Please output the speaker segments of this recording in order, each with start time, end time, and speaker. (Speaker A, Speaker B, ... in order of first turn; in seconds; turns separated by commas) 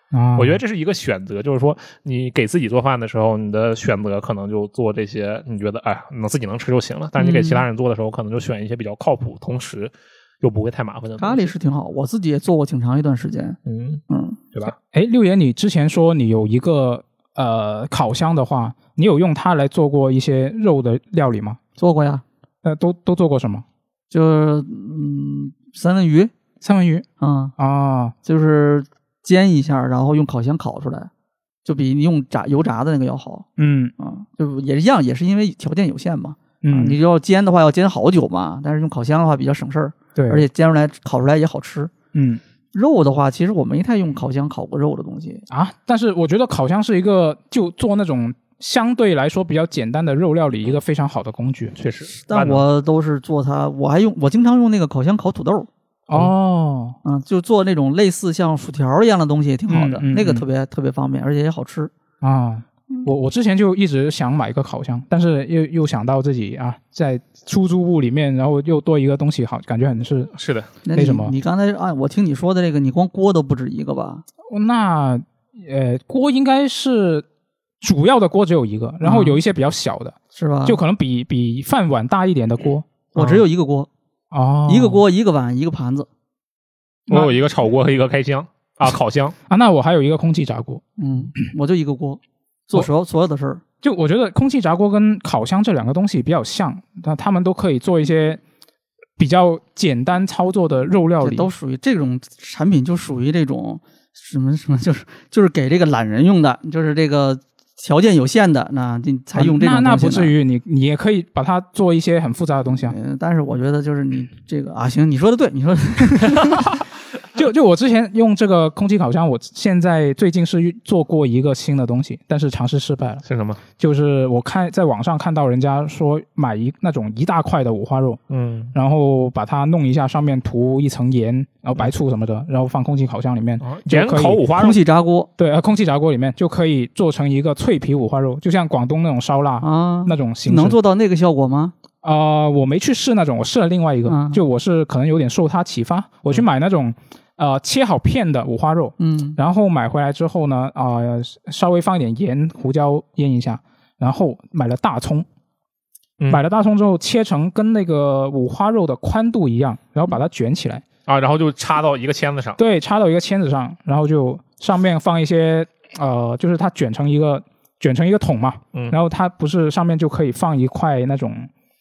Speaker A: 0.1-0.6, Speaker B: 0.3-11.5, Speaker C: 7.2-7.6, Speaker C: 11.2-13.6, Speaker B: 13.7-14.0, Speaker C: 14.1-14.4, Speaker A: 14.9-21.6, Speaker C: 21.8-22.2, Speaker A: 22.6-23.6, Speaker C: 24.1-26.3, Speaker A: 26.6-28.1, Speaker C: 27.2-27.5, Speaker C: 28.2-31.1, Speaker C: 31.6-33.5, Speaker A: 33.6-33.9, Speaker C: 34.0-41.9, Speaker A: 36.6-37.0, Speaker A: 40.1-40.5, Speaker A: 42.1-42.4, Speaker C: 42.7-45.4, Speaker A: 45.5-51.8, Speaker B: 51.8-52.6, Speaker C: 52.2-55.7, Speaker A: 56.1-57.0, Speaker C: 57.0-61.9, Speaker A: 59.7-60.5, Speaker A: 62.2-70.3, Speaker B: 70.3-70.7, Speaker C: 70.8-74.2, Speaker A: 70.9-71.3, Speaker A: 74.5-77.2, Speaker A: 77.8-82.9, Speaker C: 79.0-79.4, Speaker C: 80.3-80.8, Speaker C: 83.1-83.9, Speaker B: 83.2-83.5, Speaker A: 84.3-85.0, Speaker C: 84.7-86.1, Speaker B: 87.1-89.3, Speaker A: 89.5-90.8, Speaker C: 91.0-93.6, Speaker A: 93.8-98.4, Speaker A: 99.2-101.5, Speaker C: 101.2-110.3, Speaker A: 109.3-113.0, Speaker C: 112.8-116.8, Speaker A: 117.3-123.2, Speaker B: 123.2-123.6, Speaker A: 123.8-128.2, Speaker B: 128.3-128.7, Speaker A: 128.7-134.4, Speaker B: 133.6-134.8, Speaker C: 134.6-135.3, Speaker A: 135.4-140.8, Speaker C: 139.6-141.7, Speaker A: 142.0-155.3, Speaker C: 144.1-144.4, Speaker C: 149.0-149.4, Speaker A: 156.3-160.8, Speaker B: 161.1-162.6, Speaker A: 162.6-171.5